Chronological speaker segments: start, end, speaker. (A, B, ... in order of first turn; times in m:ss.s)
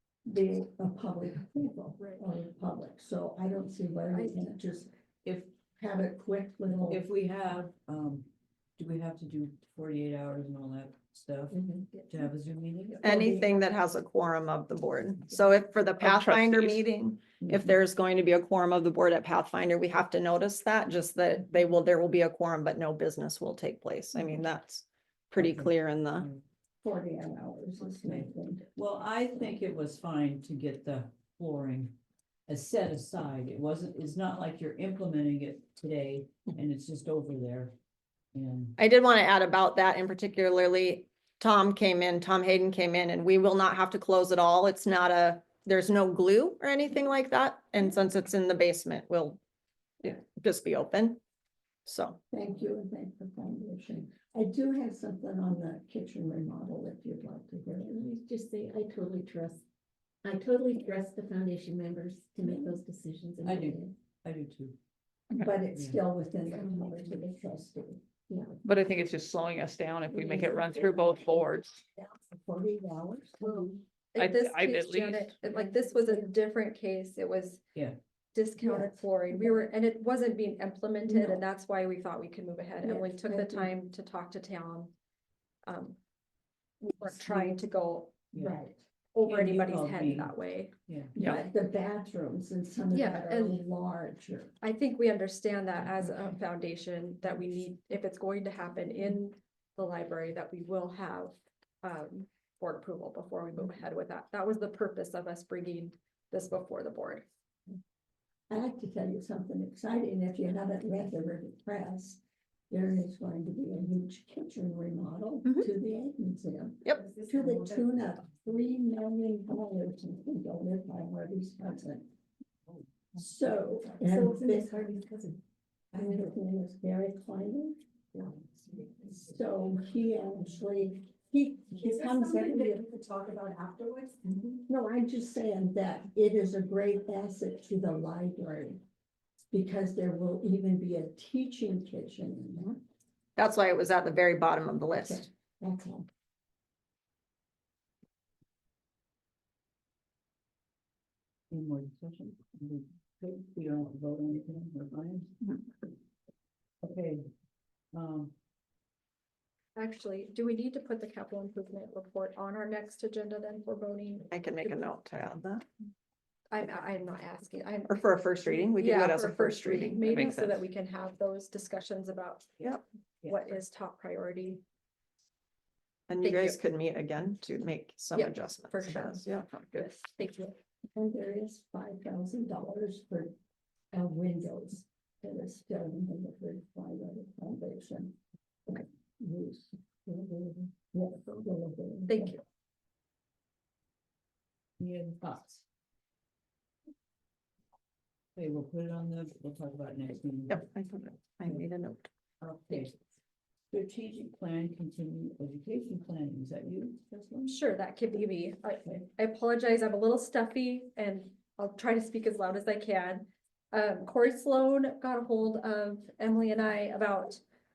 0:00.2-0:07.0 A
0:06.9-0:13.1 B
0:13.0-0:13.5 A
0:13.0-0:26.3 C
0:16.0-0:16.9 D
0:25.4-0:26.4 B
0:26.8-0:28.7 A
0:28.0-0:32.0 B
0:32.5-0:37.8 B
0:38.3-0:38.8 B
0:38.8-0:49.4 C
0:50.0-0:51.2 C
0:51.8-0:52.2 C
0:52.3-0:58.1 A
0:57.9-0:59.6 E
1:00.2-1:03.9 E
1:02.4-1:02.8 A
1:03.4-1:04.8 B
1:05.3-1:08.2 A
1:05.7-1:06.0 B
1:06.6-1:07.2 E
1:08.6-1:11.8 D
1:10.1-1:11.3 A
1:10.3-1:10.9 E
1:12.0-1:13.7 A
1:13.4-1:17.6 F
1:14.2-1:15.4 D
1:18.3-1:24.9 F
1:18.6-1:19.6 A
1:21.1-1:21.4 A
1:22.8-1:23.7 A
1:25.7-1:26.0 F
1:26.8-1:28.3 F
1:27.2-1:27.5 A
1:28.3-1:28.6 B
1:28.4-1:28.7 E
1:29.1-1:31.4 F
1:29.2-1:30.4 B
1:30.9-1:31.1 B
1:31.2-1:34.5 A
1:32.9-1:33.6 F
1:34.6-1:47.2 F
1:48.5-2:02.1 A
2:03.1-2:04.8 A
2:03.9-2:05.4 E
2:05.9-2:07.8 A
2:06.0-2:06.3 E
2:09.2-2:12.8 A
2:12.2-2:14.2 E
2:14.7-2:18.8 A
2:19.5-2:22.8 A
2:23.4-2:25.3 C
2:25.0-2:26.1 A
2:31.5-2:35.4 B
2:36.8-2:37.2 B
2:37.9-2:38.3 B
2:39.8-2:44.3 F
2:44.3-2:45.6 C
2:46.5-2:48.0 F
2:47.9-2:50.2 C
2:48.6-2:52.6 F
2:50.1-2:50.6 D
2:53.2-2:54.6 F
2:56.1-2:59.4 C
2:56.2-2:56.6 F
2:58.1-3:00.6 F
3:00.9-3:03.4 A
3:03.9-3:08.2 A
3:08.7-3:12.3 A
3:12.1-3:12.4 F
3:14.8-3:15.6 B
3:18.4-3:20.6 B
3:20.5-3:22.1 C
3:22.4-3:23.0 B
3:23.7-3:27.6 B
3:27.4-3:37.4 F